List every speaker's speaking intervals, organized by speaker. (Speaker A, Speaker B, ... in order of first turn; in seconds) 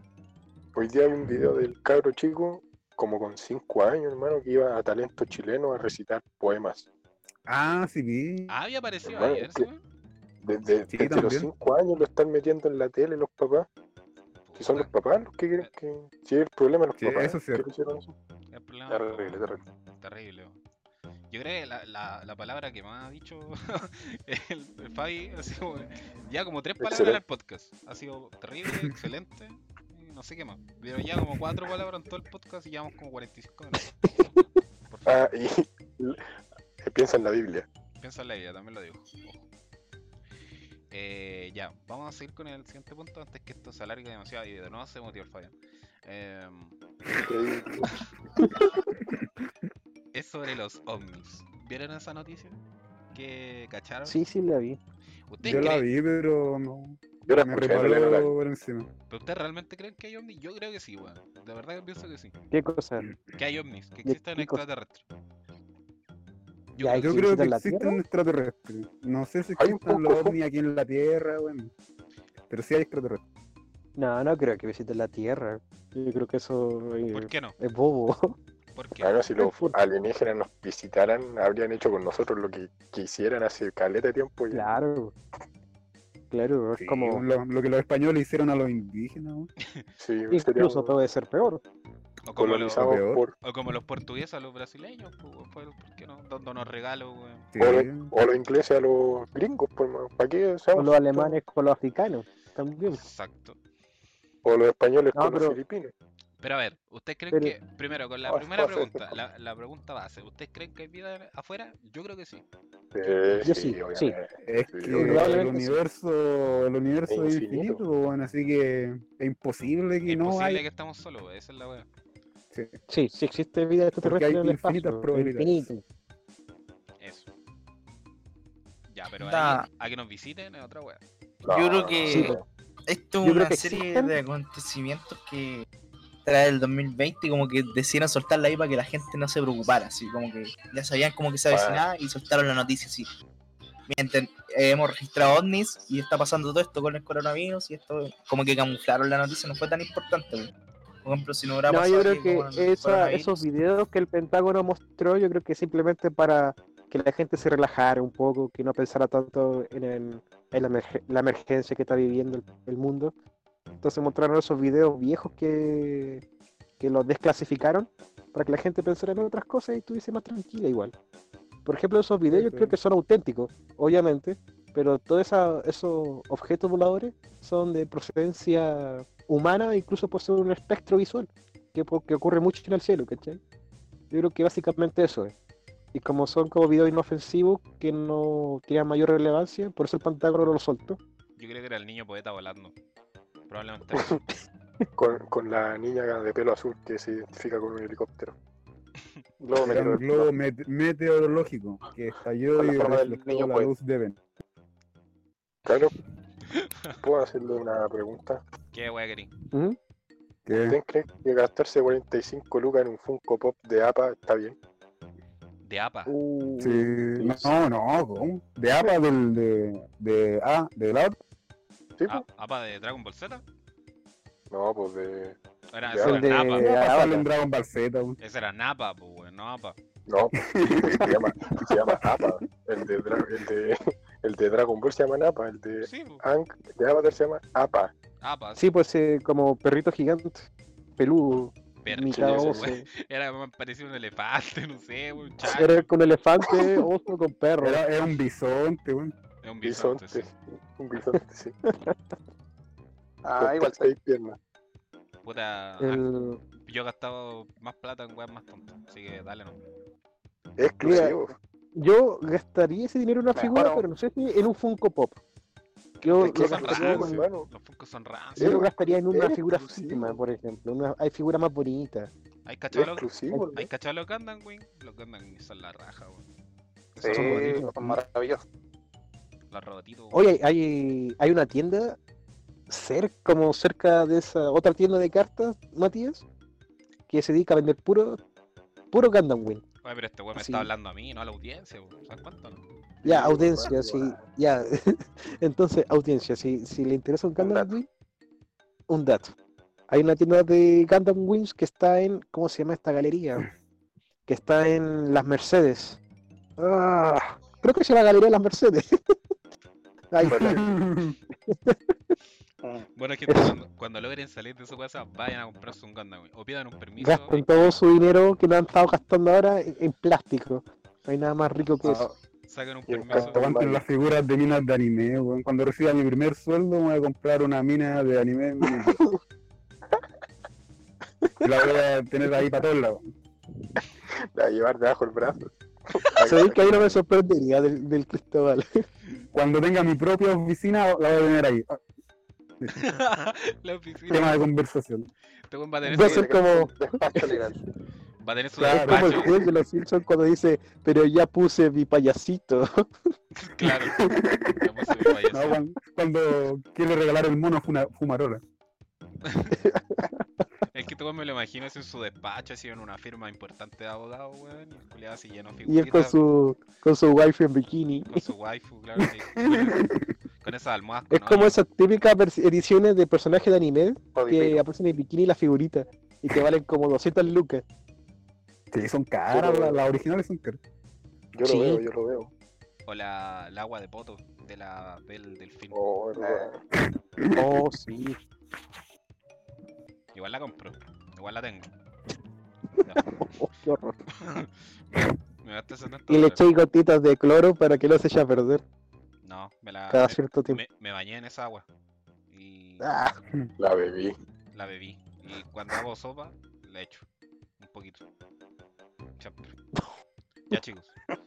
Speaker A: 0.7-6.9, 9.1-9.7, 10.4-13.7, 14.6-18.1, 26.8-27.2, 35.0-36.2, 36.8-37.6, 47.1-47.9, 57.3-58.3, 69.6-70.4, 79.0-84.8, 90.0-90.9, 92.3-93.3, 97.6-101.4, 104.4-105.9, 108.6-108.9, 112.9-115.4, 117.1-117.8, 131.4-132.4, 141.5-141.8, 194.9-198.3, 199.4-200.3, 205.6-205.9, 207.0-208.4, 210.5-214.6, 222.0-222.2, 224.5-226.3, 230.1-237.9, 242.1-242.7, 249.6-251.6, 253.4-254.4, 260.6-261.4, 266.2-267.5, 268.4-270.1, 272.7-273.6, 293.0-294.2, 297.4-297.7, 322.9-323.8, 334.3-336.9, 379.3-379.8, 381.3-382.3, 385.7-386.6, 403.6-404.1
Speaker B: 7.5-8.6, 10.9-11.5, 17.0-17.6, 55.4-58.9, 67.0-71.7, 72.5-73.2, 86.8-89.5, 92.7-93.2, 97.5-98.1, 114.4-120.6, 122.5-122.8, 124.0-125.7, 172.3-172.7, 199.6-204.2, 210.5-210.8, 216.6-221.2, 226.5-228.2, 230.5-231.2, 247.6-249.1, 310.2-311.1, 323.1-329.0, 331.4-333.0, 339.3-341.8, 344.1-345.1, 348.6-349.4, 353.6-354.6, 355.3-358.4, 369.4-370.0, 378.7-380.6, 386.9-387.5
Speaker C: 8.5-9.8, 14.5-14.9, 18.5-20.6, 21.3-34.0, 34.9-35.3, 38.0-39.4, 40.9-46.8, 50.1-52.6, 53.1-54.1, 55.3-55.8, 59.1-62.3, 63.3-65.0, 66.7-67.2, 77.1-77.5, 78.7-79.1, 92.3-92.8, 93.4-97.5, 102.9-103.6, 106.4-112.4, 120.0-121.8, 127.0-127.3, 128.9-131.0, 191.4-192.7, 193.5-194.2, 206.5-206.9, 208.7-209.3, 215.6-216.1, 222.1-223.4, 225.7-226.7, 228.2-229.8, 235.8-236.2, 238.2-238.7, 241.8-245.9, 249.4-250.2, 255.2-259.6, 266.0-268.6, 272.4-276.2, 277.0-277.5, 279.5-280.3, 289.8-292.6, 312.9-317.4, 322.5-323.4, 342.7-344.4, 345.5-346.3, 348.2-349.5, 353.3-355.6, 359.2-359.7, 360.7-366.2, 368.1-371.6, 382.9-385.8, 390.1-391.7, 392.8-393.2, 394.1-396.4, 399.2-401.6, 402.3-402.9, 404.5-407.0, 407.6-408.0, 409.2-409.5, 410.5-410.9
Speaker D: 18.9-19.6, 199.7-200.0, 202.6-203.7, 253.2-253.9, 263.4-263.9, 277.0-278.4, 346.1-347.6, 374.1-374.6, 386.1-386.5
Speaker E: 54.0-54.8, 62.5-63.1, 64.0-64.6, 66.8-68.0, 74.0-78.3, 79.4-79.8, 84.5-85.1, 86.3-87.2, 90.3-91.6, 100.7-103.0, 105.1-105.6, 113.4-114.2, 114.9-115.7, 122.9-125.8, 132.1-132.4, 133.2-134.1, 151.7-163.1, 163.8-166.2, 166.8-170.9, 171.6-183.4, 184.1-185.3, 185.9-191.0, 209.5-209.8, 216.1-217.3, 226.0-227.3, 238.6-242.8, 245.4-247.8, 251.7-251.9, 255.8-256.4, 260.8-261.2, 261.7-265.2, 266.0-267.2, 268.4-272.1, 273.3-273.7, 277.0-278.0, 280.1-282.0, 282.7-286.2, 287.1-288.2, 288.9-289.6, 290.3-290.7, 293.0-297.9, 298.9-299.3, 299.9-303.5, 304.3-306.0, 306.6-309.1, 310.1-310.7, 311.5-312.1, 313.3-313.5, 317.0-322.1, 336.2-338.8, 345.8-347.4, 348.7-352.9, 359.5-360.2, 365.6-368.2, 371.1-377.6, 381.4-381.9, 387.3-388.2, 392.9-393.9, 396.1-398.6, 399.9-400.6, 402.8-403.2
Speaker F: 129.2-129.7, 131.4-135.7, 136.2-143.1, 143.9-150.5, 151.0-153.3